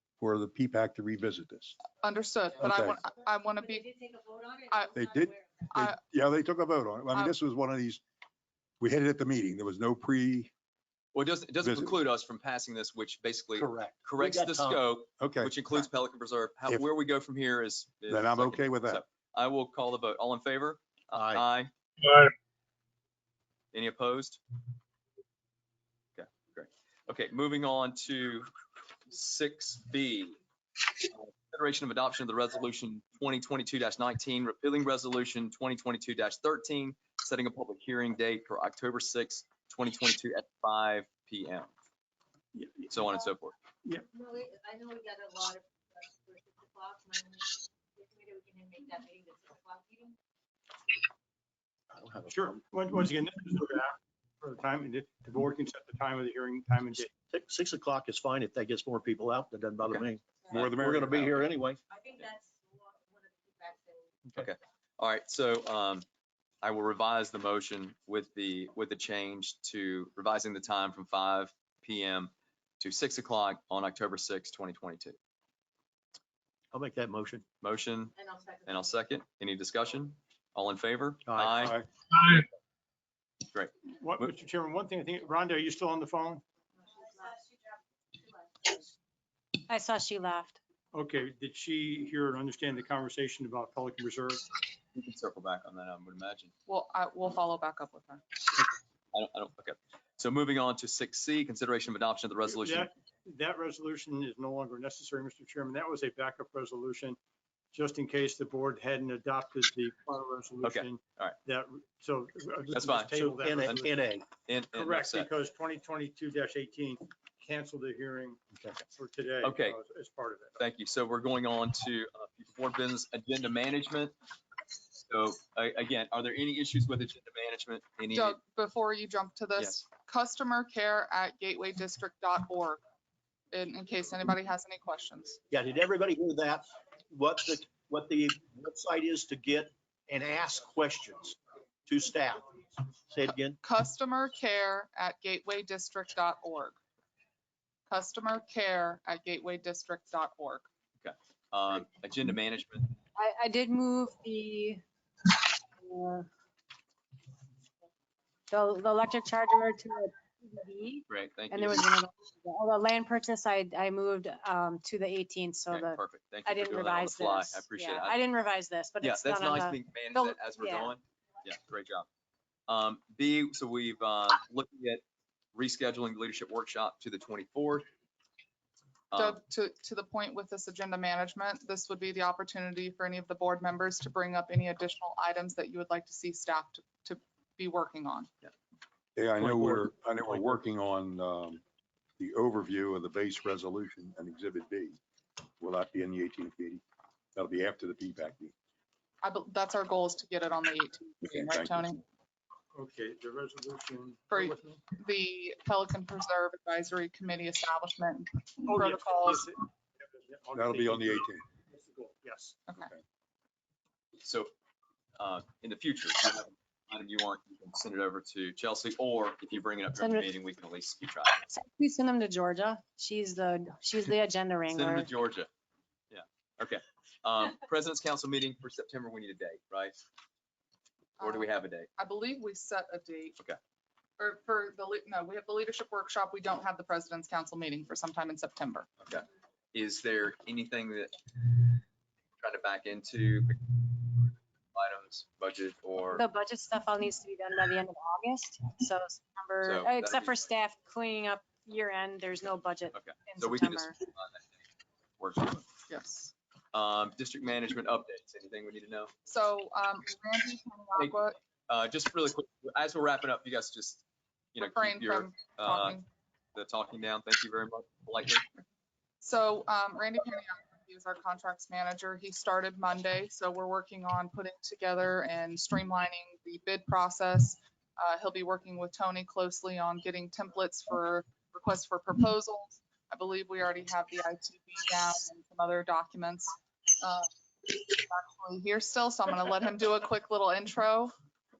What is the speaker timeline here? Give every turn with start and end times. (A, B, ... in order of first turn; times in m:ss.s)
0:00.2-0:01.8 A
0:02.0-0:03.9 B
0:02.6-0:03.0 A
0:03.7-0:05.7 C
0:04.7-0:05.0 B
0:04.9-0:08.0 A
0:08.8-0:10.5 A
0:11.1-0:21.7 D
0:11.6-0:11.9 A
0:13.6-0:14.8 E
0:15.2-0:15.6 A
0:18.1-0:19.0 A
0:21.1-0:21.4 E
0:23.7-0:24.4 D
0:26.2-0:28.5 D
0:29.1-0:30.4 D
0:30.9-0:41.7 D
0:42.5-0:43.2 F
0:42.9-0:43.5 D
0:44.1-0:50.2 C
0:51.9-0:52.6 E
0:52.3-0:57.1 F
0:57.0-1:01.8 E
1:00.5-1:01.5 A
1:01.9-1:04.1 C
1:04.4-1:06.0 D
1:06.6-1:15.2 D
1:16.7-1:17.4 E
1:17.6-1:21.8 D
1:18.2-1:19.0 C
1:21.3-1:21.6 E
1:21.6-1:21.8 A
1:23.5-1:24.3 D
1:24.0-1:26.4 F
1:27.1-1:27.4 C
1:29.7-1:30.6 G
1:30.9-1:34.4 F
1:35.0-1:36.5 D
1:36.7-1:38.2 B
1:39.1-1:42.9 D
1:42.5-1:47.2 F
1:47.7-1:54.1 F
1:50.6-1:51.4 D
1:52.7-1:53.8 D
1:53.1-1:54.2 E
1:54.5-1:55.3 D
1:54.7-2:00.6 F
1:59.4-1:59.8 D
2:00.6-2:04.2 D
2:05.0-2:08.4 D
2:08.1-2:12.8 B
2:09.6-2:09.8 D
2:13.5-2:15.4 B
2:15.5-2:22.6 E
2:23.1-2:23.6 E
2:23.6-2:26.8 B
2:27.9-2:30.7 B
2:31.0-2:32.9 D
2:33.2-2:34.8 G
2:35.8-2:36.3 G
2:38.5-2:51.0 G
2:41.1-2:41.9 D
2:45.7-2:48.2 D
2:49.0-2:52.1 D
2:52.7-2:55.0 D
2:55.5-2:57.9 D
2:59.1-2:59.4 D
2:59.1-3:08.3 B
3:09.2-3:11.6 A
3:09.4-3:09.9 D
3:12.2-3:15.0 A
3:15.6-3:16.8 A
3:17.4-3:18.5 A
3:19.2-3:22.0 B
3:21.2-3:21.9 A
3:22.7-3:24.8 F
3:24.3-3:29.5 B
3:28.7-3:32.6 F
3:30.6-3:31.4 A
3:34.2-3:34.5 D
3:35.2-3:41.4 D
3:40.0-3:40.3 G
3:41.5-3:45.1 G
3:44.7-3:45.5 D
3:46.1-3:50.0 D
3:51.2-3:53.4 B
3:51.2-3:51.9 D
3:54.2-3:58.9 B
3:59.0-4:01.8 D
4:02.4-4:06.2 D
4:06.1-4:14.0 G
4:09.6-4:10.4 D
4:12.9-4:14.5 D
4:15.2-4:15.6 D
4:15.9-4:16.3 B
4:16.7-4:19.1 D
4:19.3-4:21.4 B
4:21.0-4:24.0 D
4:24.6-4:26.0 D
4:24.6-4:26.1 B
4:26.6-4:28.5 D
4:29.2-4:51.1 B